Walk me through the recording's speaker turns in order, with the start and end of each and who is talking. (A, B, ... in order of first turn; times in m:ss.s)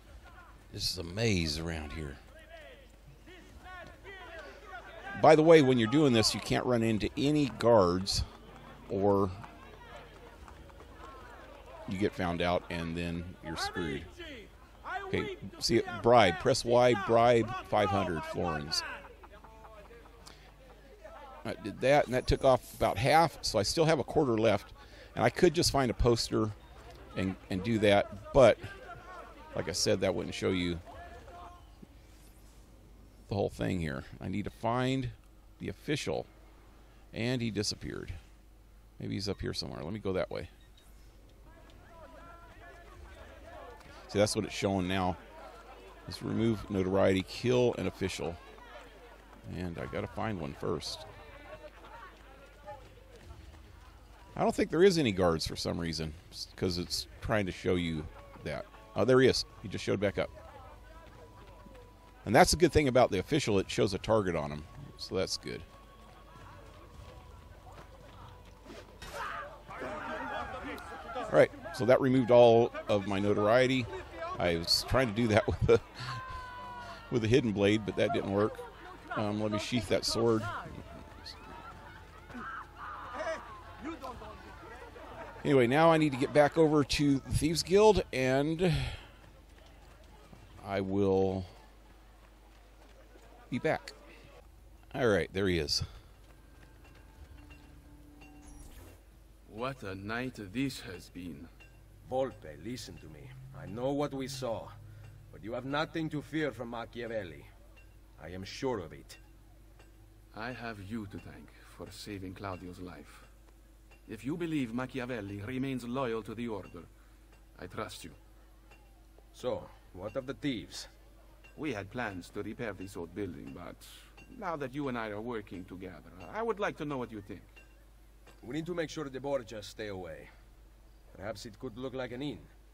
0:00.7-0:02.2 A
0:05.1-0:08.3 A
0:08.9-0:09.3 A
0:11.9-0:14.1 A
0:15.1-0:18.8 A
0:21.4-0:26.6 A
0:27.2-0:28.7 A
0:29.6-0:30.8 A
0:33.3-0:36.3 A
0:37.1-0:38.2 A
0:39.0-0:40.5 A
0:44.1-0:45.2 A
0:46.1-0:48.4 A
0:49.5-0:51.1 A
0:54.4-1:00.3 A
1:02.2-1:05.7 A
1:11.3-1:16.2 A
1:17.1-1:20.8 A
1:25.4-1:29.0 A
1:30.6-1:31.5 A
1:33.5-1:34.0 A
1:34.9-1:35.9 A
1:39.5-1:41.5 B
1:42.0-1:44.7 C
1:45.3-1:47.5 C
1:48.2-1:49.2 C
1:50.3-1:53.3 B
1:54.1-1:56.9 B
1:57.6-1:58.2 B
1:59.3-2:00.9 C
2:01.6-2:07.6 B
2:08.4-2:10.3 C
2:11.1-2:12.5 C